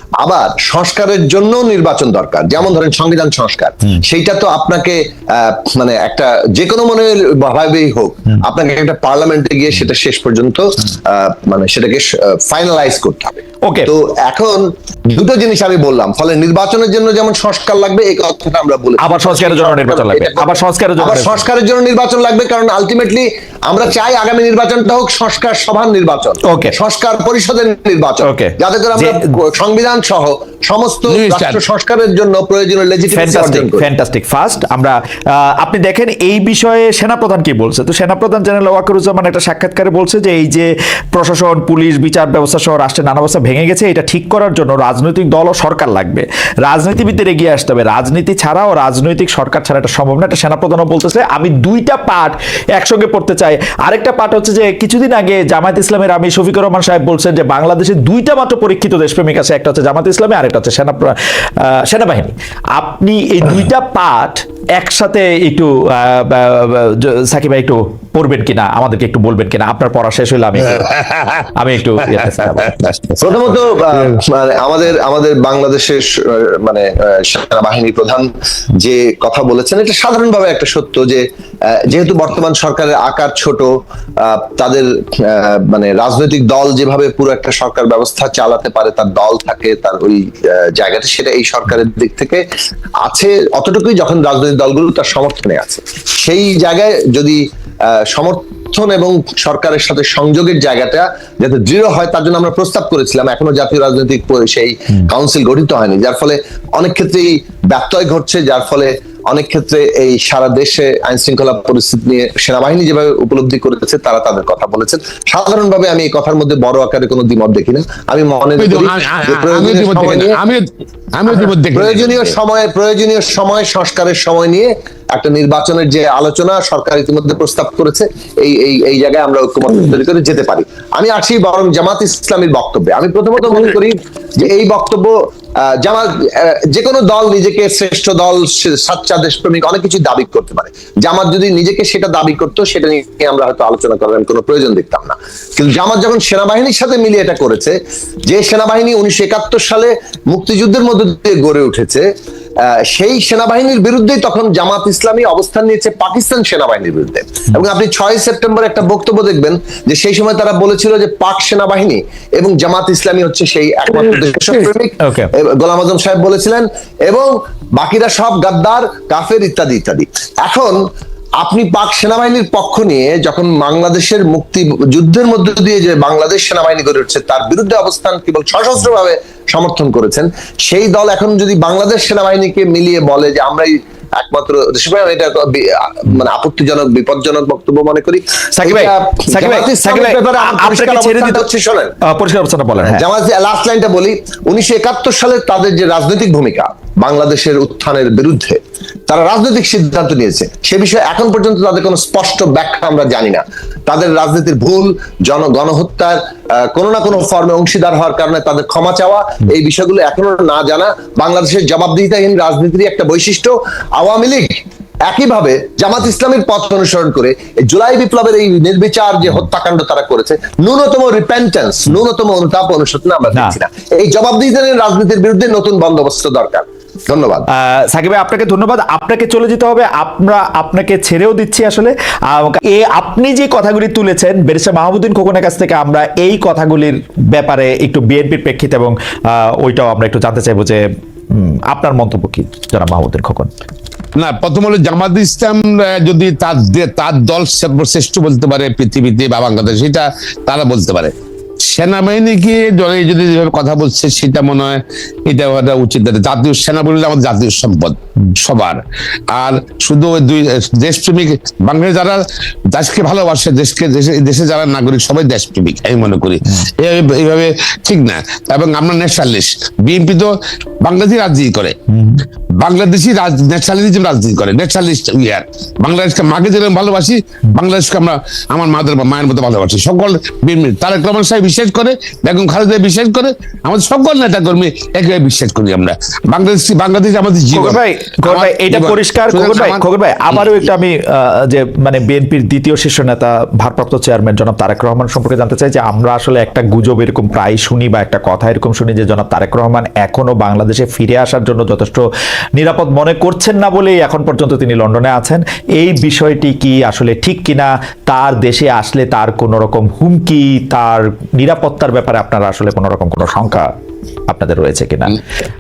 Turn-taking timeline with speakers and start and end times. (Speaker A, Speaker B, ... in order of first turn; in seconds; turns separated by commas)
Speaker A: 0.2-33.8, Speaker B: 13.6-13.9, Speaker B: 19.0-21.4, Speaker B: 26.4-26.8, Speaker B: 28.2-29.2, Speaker C: 31.1-31.6, Speaker B: 33.1-70.9, Speaker C: 70.7-71.5, Speaker B: 71.5-73.2, Speaker C: 72.1-72.8, Speaker A: 73.2-92.5, Speaker A: 93.0-97.4, Speaker A: 98.0-120.4, Speaker C: 118.6-122.4, Speaker A: 121.3-152.1, Speaker A: 152.7-170.8, Speaker B: 165.0-165.3, Speaker A: 171.4-192.0, Speaker B: 188.6-191.5, Speaker B: 192.1-193.0, Speaker A: 192.8-227.5, Speaker B: 227.5-243.5, Speaker C: 244.2-258.8, Speaker C: 259.3-271.8, Speaker B: 271.9-272.2, Speaker C: 272.6-290.5, Speaker B: 287.5-302.0, Speaker B: 302.6-313.7, Speaker B: 314.3-315.2